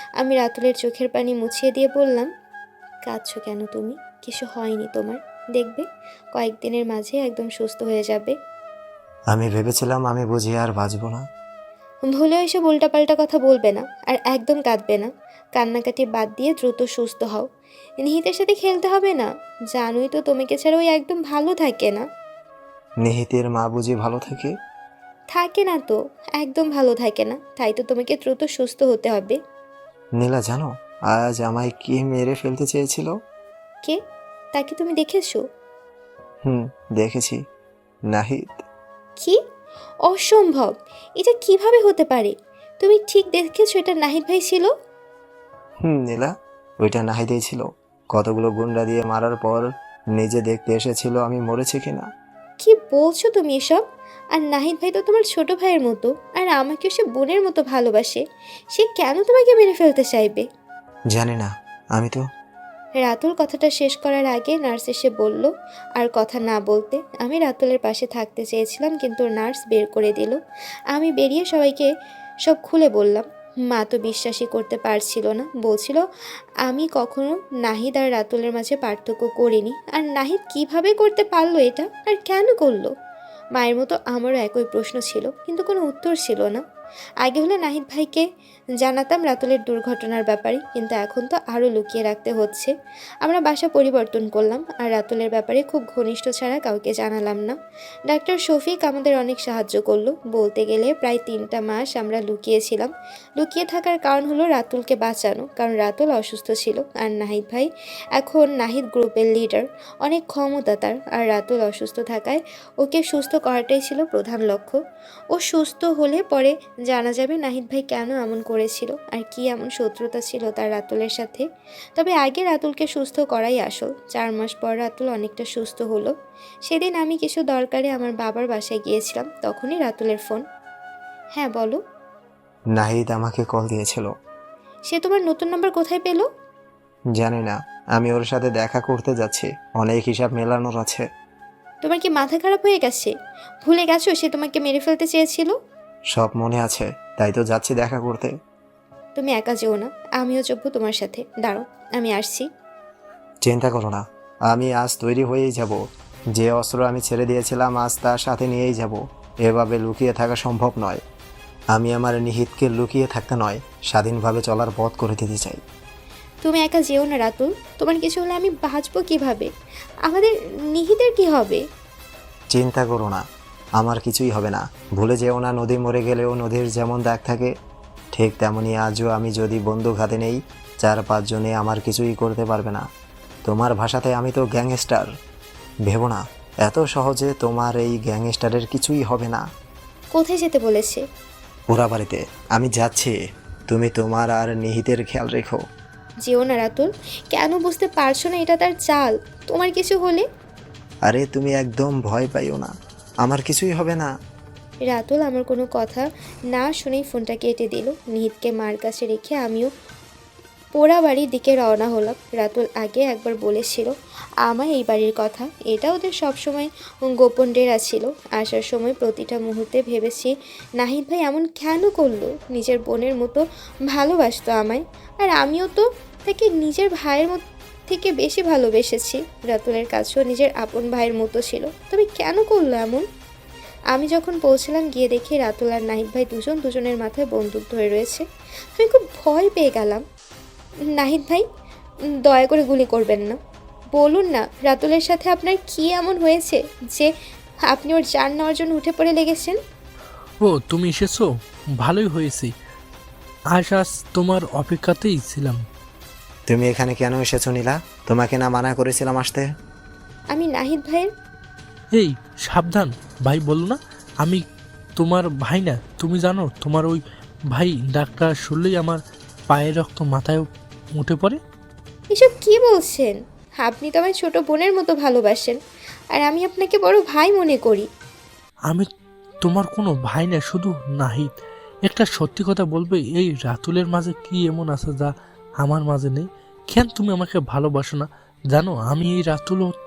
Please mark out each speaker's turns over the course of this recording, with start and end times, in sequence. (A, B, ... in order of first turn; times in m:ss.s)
0:00.2-0:02.3 A
0:03.1-0:05.8 A
0:06.4-0:08.4 A
0:09.3-0:11.2 B
0:12.1-0:17.5 A
0:18.0-0:22.0 A
0:23.0-0:24.5 B
0:25.3-0:29.4 A
0:30.2-0:33.1 B
0:34.5-0:35.4 A
0:36.5-0:37.4 B
0:38.1-0:38.6 B
0:40.1-0:44.7 A
0:45.8-0:52.1 B
0:52.6-0:53.8 A
0:54.4-0:58.2 A
0:58.7-1:00.5 A
1:01.1-1:02.2 B
1:03.0-1:10.4 A
1:10.9-1:11.9 A
1:12.5-1:16.0 A
1:16.7-1:22.9 A
1:23.6-1:26.6 A
1:27.2-1:28.3 A
1:28.8-1:32.7 A
1:33.2-1:37.6 A
1:38.1-1:54.8 A
1:55.3-2:01.4 A
2:02.0-2:06.1 A
2:06.7-2:10.4 A
2:11.4-2:11.8 A
2:12.8-2:14.1 B
2:14.9-2:16.3 A
2:17.2-2:21.0 B
2:21.8-2:23.1 A
2:23.6-2:25.6 A
2:26.2-2:28.3 B
2:29.2-2:32.5 A
2:33.4-2:35.8 B
2:36.4-2:41.0 B
2:41.7-2:45.6 B
2:46.4-2:49.5 A
2:50.1-2:51.6 A
2:52.5-2:53.2 B
2:53.8-2:57.5 B
2:58.2-3:02.8 B
3:03.5-3:05.1 B
3:05.9-3:09.4 B
3:10.1-3:11.0 A
3:11.7-3:13.2 B
3:13.7-3:15.6 B
3:16.3-3:20.2 A
3:21.1-3:22.7 B
3:23.2-3:24.1 B
3:24.9-3:29.7 A
3:30.8-3:33.9 A
3:34.4-3:53.0 A
3:53.9-3:58.2 A
3:58.8-4:00.0 A
4:01.0-4:01.4 A
4:02.3-4:03.4 A
4:04.0-4:07.1 A
4:07.7-4:09.6 A
4:10.4-4:11.3 C
4:11.8-4:12.5 C
4:13.6-4:15.6 C
4:16.5-4:19.5 B
4:20.3-4:21.1 A
4:21.9-4:24.4 C
4:25.0-4:27.0 C
4:27.5-4:29.0 C
4:29.5-4:30.4 C
4:31.0-4:31.4 C
4:32.1-4:35.6 A
4:36.2-4:37.9 A
4:39.5-4:41.3 C
4:41.9-4:45.1 C
4:45.6-4:49.7 C